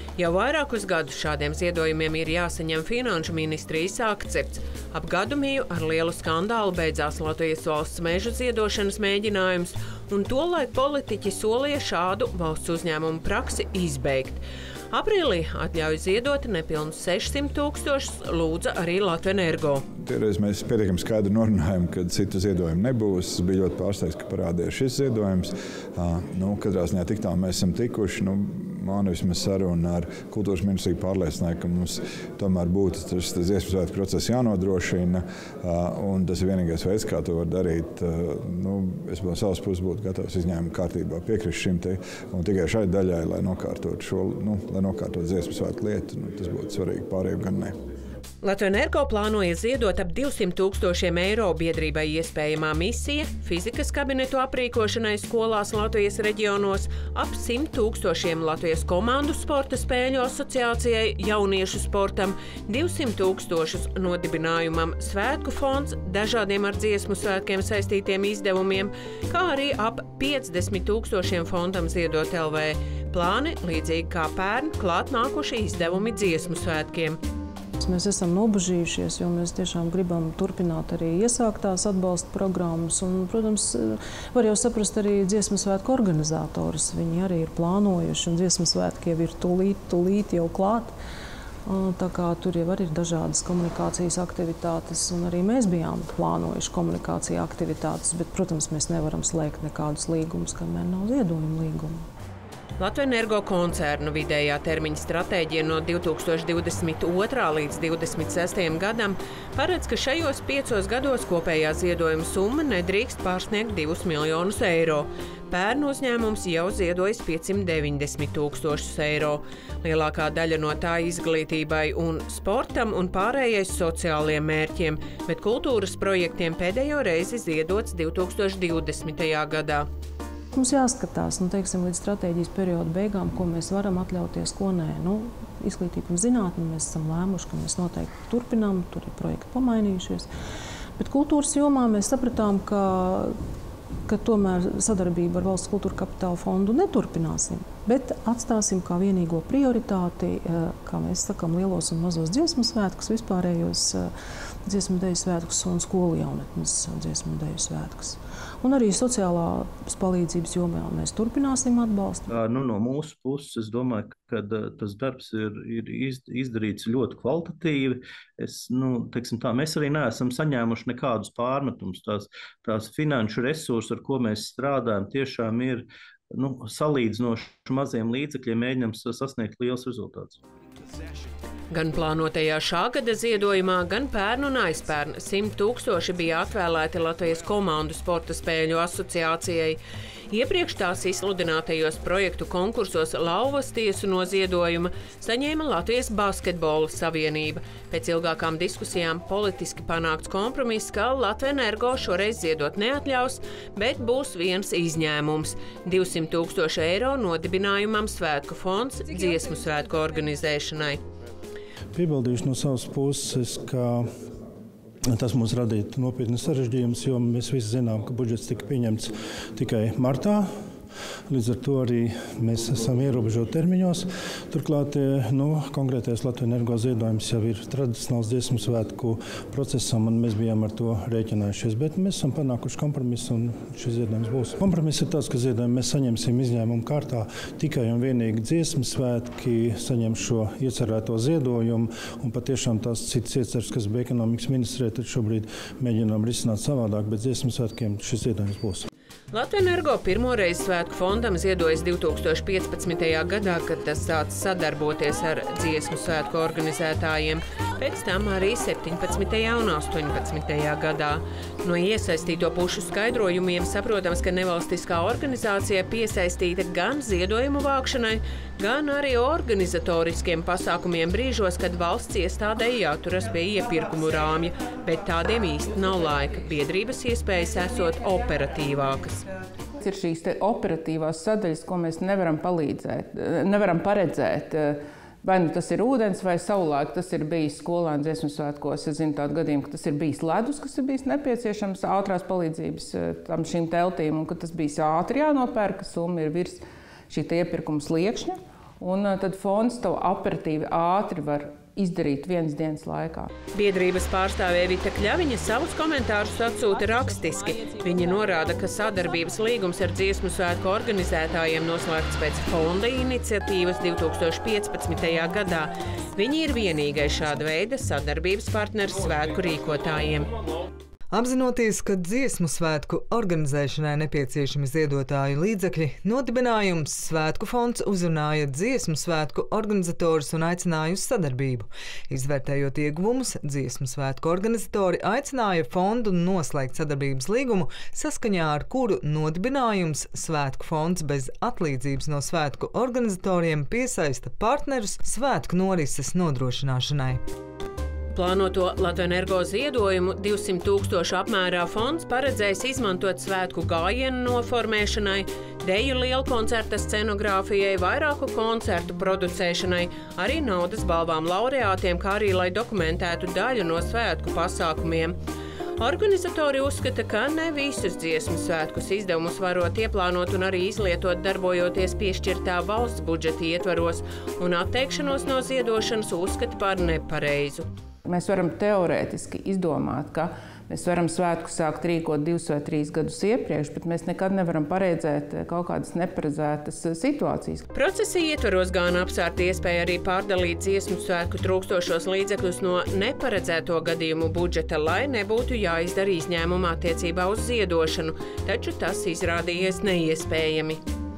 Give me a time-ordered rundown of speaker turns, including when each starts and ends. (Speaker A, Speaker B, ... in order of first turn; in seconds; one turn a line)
Speaker A: 0.2-19.8
Speaker B: 20.0-47.7
Speaker A: 48.4-77.2
Speaker C: 78.0-83.8
Speaker C: 84.3-90.9
Speaker C: 91.7-101.9
Speaker A: 102.8-129.9
Speaker C: 130.8-140.2
Speaker C: 141.0-143.3
Speaker C: 144.1-154.0
Speaker C: 154.7-162.2
Speaker D: 162.3-180.4
Speaker A: 181.7-189.8
Speaker A: 190.3-211.0
Speaker E: 211.9-214.1
Speaker E: 215.1-220.5
Speaker E: 221.3-248.9
Speaker A: 249.3-279.2
Speaker F: 279.8-303.3
Speaker A: 303.5-320.3
Speaker G: 321.1-347.2
Speaker A: 348.1-365.2
Speaker A: 365.8-377.6
Speaker F: 378.0-387.6
Speaker A: 387.7-400.8